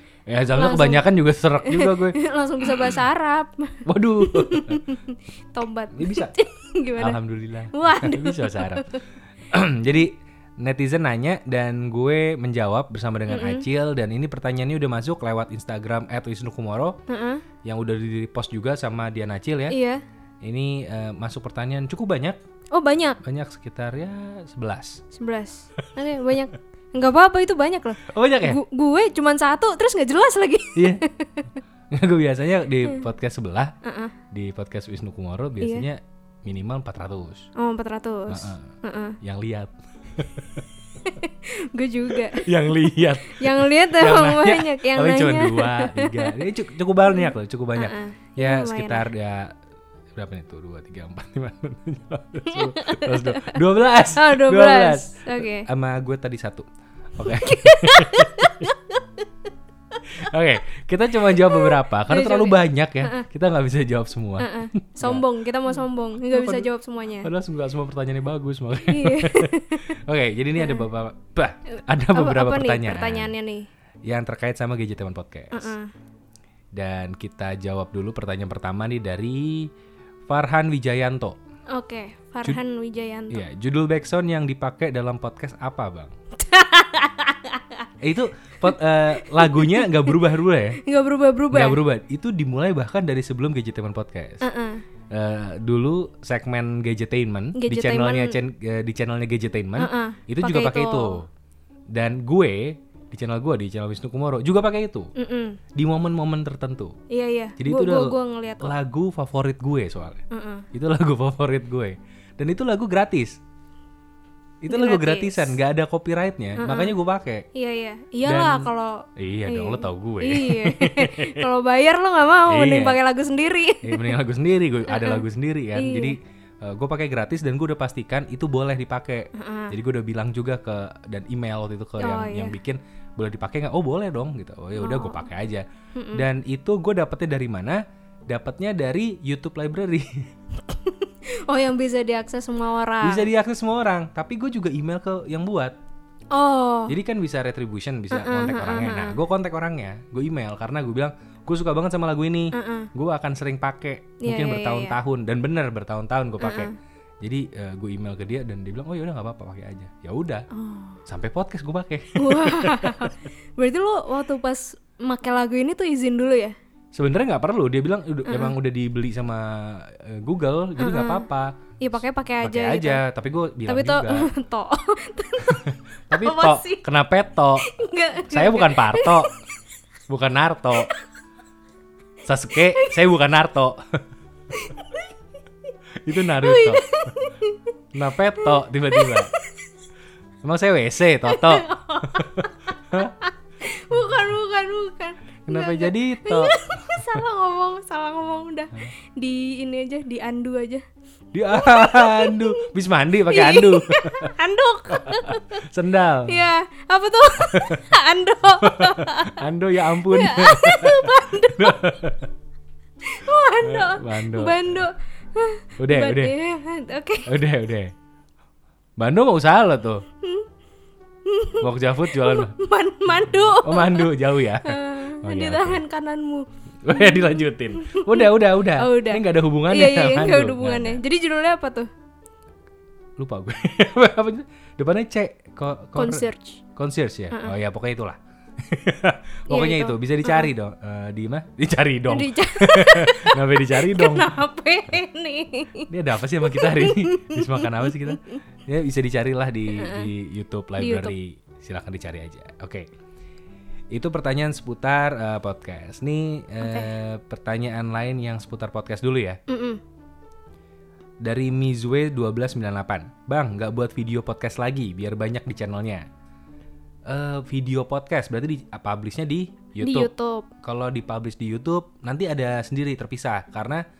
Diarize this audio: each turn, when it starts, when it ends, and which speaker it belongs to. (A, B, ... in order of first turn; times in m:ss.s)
0:00.3-0:02.2 A
0:00.5-0:01.0 B
0:01.6-0:07.2 B
0:03.8-0:04.8 A
0:05.9-0:06.3 A
0:07.0-0:08.9 A
0:07.7-0:09.0 B
0:09.5-0:17.0 A
0:13.3-0:13.7 B
0:17.1-0:17.4 B
0:17.6-0:19.8 A
0:19.7-0:20.0 B
0:20.4-0:22.4 A
0:22.7-0:23.2 B
0:23.2-0:25.0 A
0:25.1-0:31.5 B
0:25.8-0:26.4 A
0:28.0-0:28.6 A
0:30.7-0:31.0 A
0:31.9-0:33.7 A
0:33.8-0:34.2 B
0:34.3-0:37.5 A
0:35.6-0:35.8 B
0:37.6-0:39.2 B
0:38.3-0:40.7 A
0:41.0-0:42.5 B
0:42.1-0:49.5 A
0:43.2-0:46.3 B
0:47.0-0:49.1 B
0:50.2-0:58.7 A
0:52.5-0:53.6 B
0:54.1-0:55.7 B
0:57.2-0:59.2 B
1:00.0-1:05.2 A
1:01.3-1:03.2 B
1:04.4-1:07.3 B
1:06.3-1:06.7 A
1:07.2-1:13.3 A
1:08.8-1:10.0 B
1:10.6-1:10.9 B
1:11.7-1:13.7 B
1:14.0-1:15.7 A
1:15.5-1:15.9 B
1:16.7-1:19.7 A
1:20.3-1:21.4 A
1:21.7-1:23.4 B
1:23.3-1:26.1 A
1:26.4-1:27.9 B
1:28.0-1:30.8 A
1:28.6-1:30.2 B
1:30.8-1:31.8 B
1:31.5-1:34.4 A
1:34.4-1:34.8 B
1:35.1-1:41.3 A
1:37.5-1:38.4 B
1:39.8-1:41.2 B
1:41.9-1:45.1 A
1:45.2-1:45.6 B
1:45.7-1:46.9 A
1:47.1-1:48.7 B
1:47.6-1:53.4 A
1:50.3-1:50.6 B
1:54.6-1:57.4 A
1:54.7-1:55.5 B
1:56.6-1:57.0 B
1:57.5-2:04.2 B
1:58.2-2:01.4 A
2:02.5-2:03.0 A
2:03.8-2:20.3 A
2:04.9-2:05.2 B
2:05.7-2:06.2 B
2:09.3-2:09.7 B
2:12.0-2:12.6 B
2:14.8-2:15.2 B
2:15.9-2:16.3 B
2:20.6-2:23.3 B
2:23.0-2:25.7 A
2:26.3-2:26.9 B
2:26.9-2:40.5 A
2:28.1-2:29.2 B
2:32.5-2:32.9 B
2:34.2-2:35.0 B
2:36.4-2:36.7 B
2:40.5-2:41.0 B
2:41.0-2:43.1 A
2:42.1-2:46.6 B
2:46.9-2:51.5 A
2:48.2-2:48.6 B
2:50.8-2:51.3 B
2:51.8-2:53.0 B
2:52.4-2:54.3 A
2:53.7-2:56.8 B
2:55.4-2:57.7 A
2:57.6-2:59.3 B
2:58.3-2:59.3 A
3:00.1-3:00.9 A
3:02.2-3:03.8 A
3:02.7-3:03.0 B
3:04.5-3:05.1 B
3:06.0-3:07.1 A
3:06.3-3:07.7 B
3:07.9-3:09.3 A
3:08.4-3:09.7 B
3:10.4-3:13.1 A
3:11.2-3:20.8 B
3:15.4-3:17.2 A
3:21.3-3:24.3 A
3:21.5-3:22.7 B
3:23.2-3:25.6 B
3:24.9-3:26.4 A
3:26.3-3:31.8 B
3:27.4-3:28.0 A
3:28.6-3:32.3 A
3:33.0-3:37.3 B
3:33.6-3:34.6 A
3:35.8-3:36.3 A
3:37.2-3:37.9 A
3:39.0-3:40.0 A
3:40.2-3:40.5 B
3:41.2-3:51.9 B
3:41.6-3:42.6 A
3:43.6-3:45.8 A
3:46.8-3:51.0 A
3:53.2-4:04.3 A
3:56.0-3:56.6 B
3:59.5-4:00.5 B
4:02.1-4:08.3 B
4:05.9-4:12.9 A
4:09.7-4:10.1 B
4:10.8-4:11.1 B
4:13.9-4:19.4 A
4:16.6-4:16.9 B
4:19.5-4:19.8 B
4:21.2-4:26.0 A
4:27.1-4:30.1 A
4:29.8-4:30.5 B
4:30.6-4:33.8 A